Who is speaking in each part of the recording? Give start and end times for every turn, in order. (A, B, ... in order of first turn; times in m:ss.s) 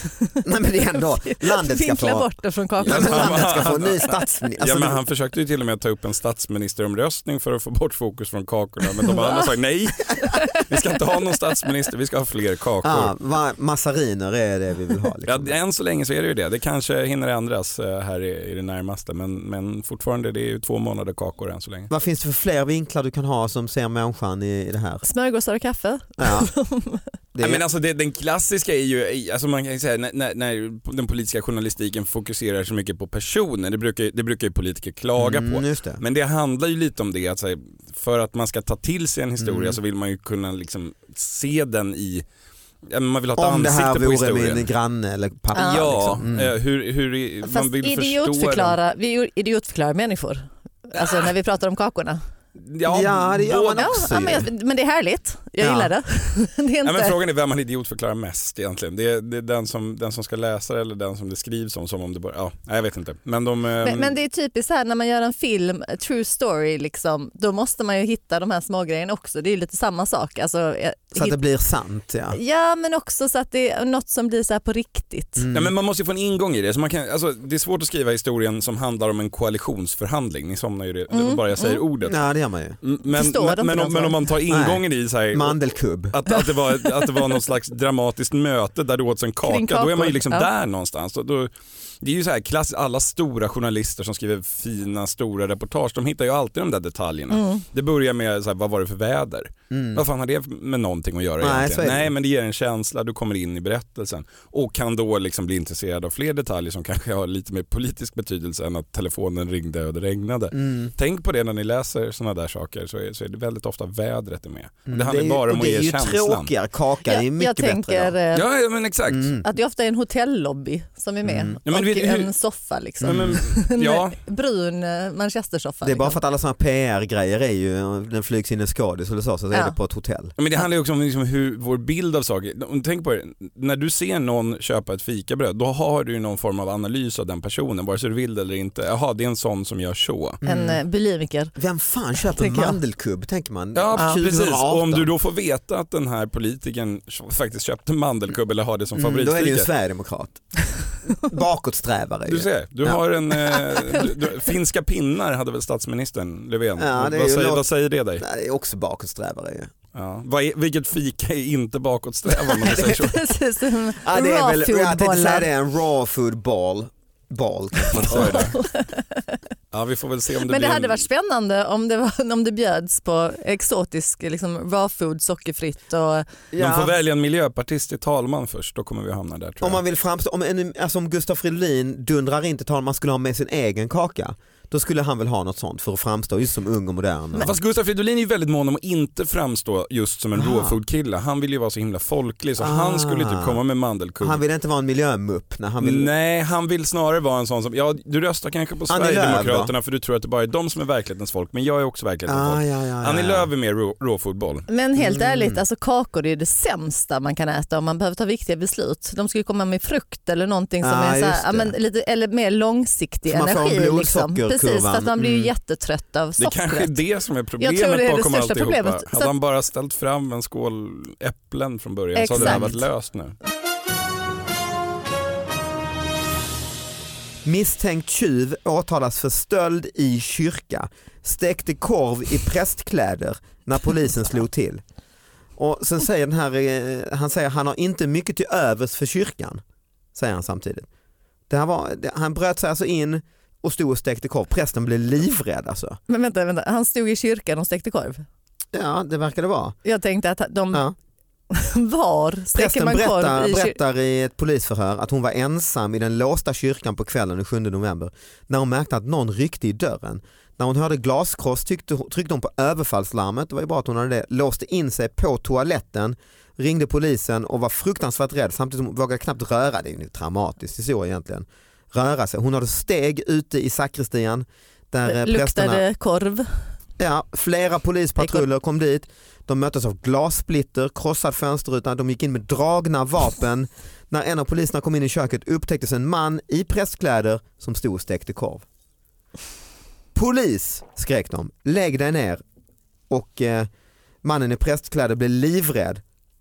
0:00.1-0:00.4 A
0:00.4-0:02.3 B
0:01.0-0:04.1 A
0:02.8-0:05.0 B
0:02.8-0:13.1 C
0:09.0-0:09.4 A
0:10.2-0:11.2 A
0:12.8-0:15.5 B
0:15.3-0:21.9 C
0:21.9-0:25.0 B
0:25.0-0:27.0 A
0:26.2-0:26.5 B
0:27.3-0:27.6 B
0:27.4-0:42.2 C
0:35.2-0:36.0 B
0:39.4-0:39.8 B
0:42.8-0:44.7 C
0:43.4-0:46.5 B
0:45.5-0:48.8 C
0:45.5-0:45.8 A
0:47.4-0:52.2 A
0:52.6-0:53.9 C
0:52.8-0:54.5 B
0:53.7-0:57.2 A
0:55.6-0:55.9 B
0:56.8-1:04.1 C
1:03.8-1:11.4 A
1:11.1-1:12.4 B
1:12.3-1:15.4 A
1:15.4-1:15.7 B
1:15.5-1:22.2 C
1:21.1-1:21.8 A
1:22.0-1:22.8 B
1:22.8-1:56.5 C
1:23.1-1:24.2 A
1:24.5-1:24.8 B
1:25.3-1:26.2 B
1:26.3-1:27.2 A
1:29.4-1:30.5 A
1:37.3-1:37.6 A
1:39.7-1:40.0 B
1:41.4-1:42.1 B
1:50.5-1:50.9 B
1:54.9-1:58.1 B
1:57.0-1:58.4 A
1:58.3-1:59.3 C
1:59.1-1:59.4 B
1:59.4-2:06.2 A
2:01.2-2:01.6 B
2:01.6-2:02.3 C
2:03.0-2:03.4 B
2:03.0-2:04.2 C
2:05.8-2:10.3 B
2:10.4-2:20.4 C
2:20.4-2:20.8 B
2:20.4-2:21.5 A
2:21.6-2:25.1 B
2:22.2-2:22.8 A
2:23.7-2:29.7 C
2:29.0-2:30.4 B
2:31.0-2:33.0 B
2:32.2-2:38.2 C
2:33.5-2:33.8 B
2:36.8-2:37.7 B
2:38.2-2:39.7 B
2:39.9-2:43.3 C
2:42.4-2:45.5 A
2:42.7-2:42.9 B
2:44.0-2:48.5 B
2:48.0-2:48.6 C
2:48.0-2:49.4 A
2:49.7-2:51.0 C
2:50.4-2:56.3 A
2:56.5-2:56.9 B
2:56.6-2:59.8 C
2:59.6-3:07.5 B
3:07.4-3:14.4 C
3:10.3-3:10.8 B
3:12.6-3:13.6 B
3:14.2-3:16.1 B
3:15.8-3:24.7 C
3:18.9-3:19.7 B
3:22.3-3:23.5 B
3:24.7-3:37.0 A
3:25.0-3:25.6 B
3:30.8-3:31.7 B
3:33.2-3:35.5 B
3:36.4-3:43.3 C
3:37.6-3:39.3 A
3:42.1-3:42.7 A
3:42.3-3:42.8 B
3:47.4-3:54.8 B
3:55.6-3:59.6 B
4:00.1-4:00.9 B
4:01.5-4:06.0 B
4:06.1-4:08.2 A
4:08.7-4:09.7 B
4:09.8-4:10.8 A
4:11.5-4:13.8 A
4:12.5-4:35.8 B
4:35.0-4:36.5 A
4:37.0-4:48.6 B
4:38.2-4:38.4 A
4:50.1-4:52.4 B
4:53.1-4:53.7 B
4:54.2-4:56.0 B